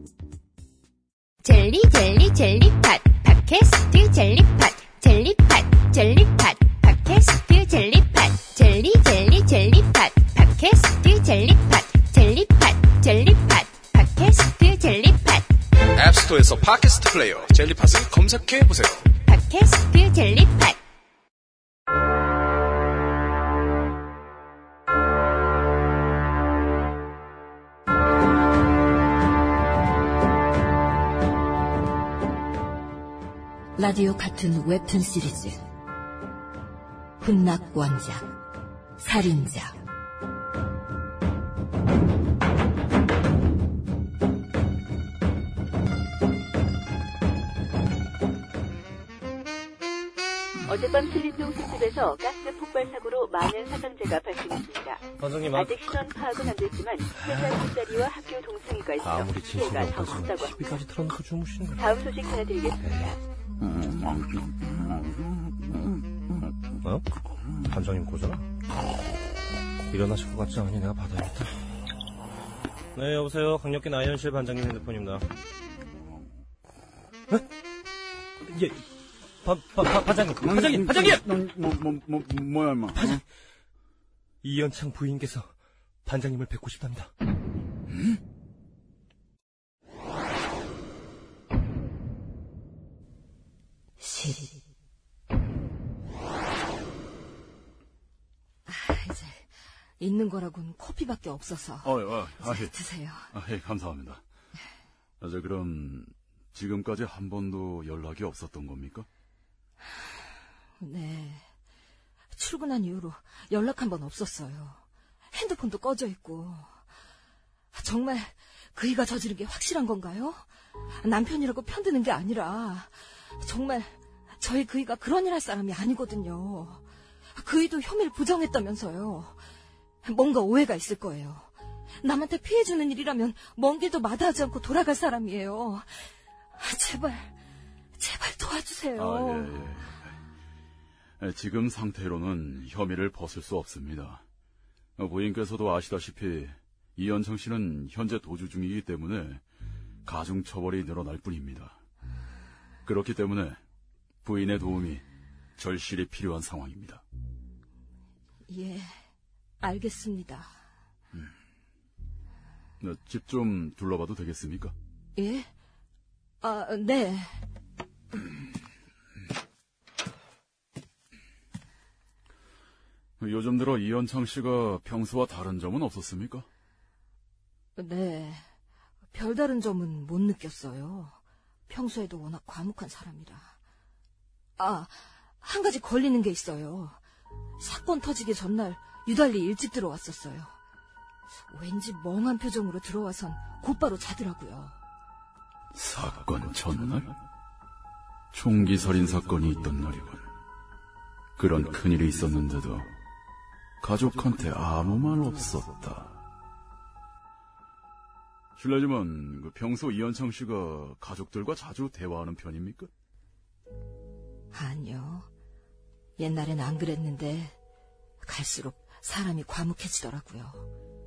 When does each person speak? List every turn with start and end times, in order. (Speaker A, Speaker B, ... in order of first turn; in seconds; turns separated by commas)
Speaker A: 1.4-15.4, Speaker B: 15.9-19.2, Speaker A: 19.2-20.8, Speaker C: 33.8-35.6, Speaker C: 37.2-38.3, Speaker C: 39.0-39.8, Speaker D: 50.6-60.6, Speaker E: 55.2-56.2, Speaker E: 57.1-58.0, Speaker E: 59.0-62.0, Speaker D: 61.7-62.8, Speaker E: 62.8-63.2, Speaker F: 63.6-66.5, Speaker E: 67.6-68.4, Speaker E: 69.9-71.5, Speaker E: 72.9-75.2, Speaker F: 76.0-76.3, Speaker E: 78.5-78.8, Speaker E: 79.4-81.2, Speaker F: 80.4-83.2, Speaker E: 82.9-83.2, Speaker E: 84.4-85.5, Speaker E: 86.0-87.1, Speaker C: 94.0-94.6, Speaker C: 98.7-103.3, Speaker F: 101.8-102.7, Speaker F: 103.3-104.2, Speaker F: 105.2-109.1, Speaker C: 110.8-111.5, Speaker C: 112.3-116.8, Speaker C: 117.7-129.4, Speaker C: 130.0-137.4, Speaker C: 137.9-139.6, Speaker F: 138.9-140.1, Speaker F: 141.2-144.2, Speaker F: 145.0-149.4, Speaker F: 150.0-151.8, Speaker F: 152.8-153.6, Speaker F: 154.2-155.0, Speaker F: 155.6-157.0, Speaker C: 158.5-159.0, Speaker C: 159.6-160.6, Speaker F: 162.8-164.7, Speaker C: 165.2-165.5, Speaker C: 166.4-167.4, Speaker F: 173.2-176.5, Speaker C: 177.8-178.5, Speaker C: 179.1-183.6, Speaker C: 184.6-187.0, Speaker C: 187.6-190.5, Speaker C: 191.5-194.8, Speaker F: 195.7-197.1, Speaker F: 198.3-200.2, Speaker F: 201.4-202.9, Speaker F: 203.8-206.2, Speaker F: 208.6-212.9, Speaker C: 214.5-215.3, Speaker C: 216.2-217.6, Speaker C: 218.2-220.7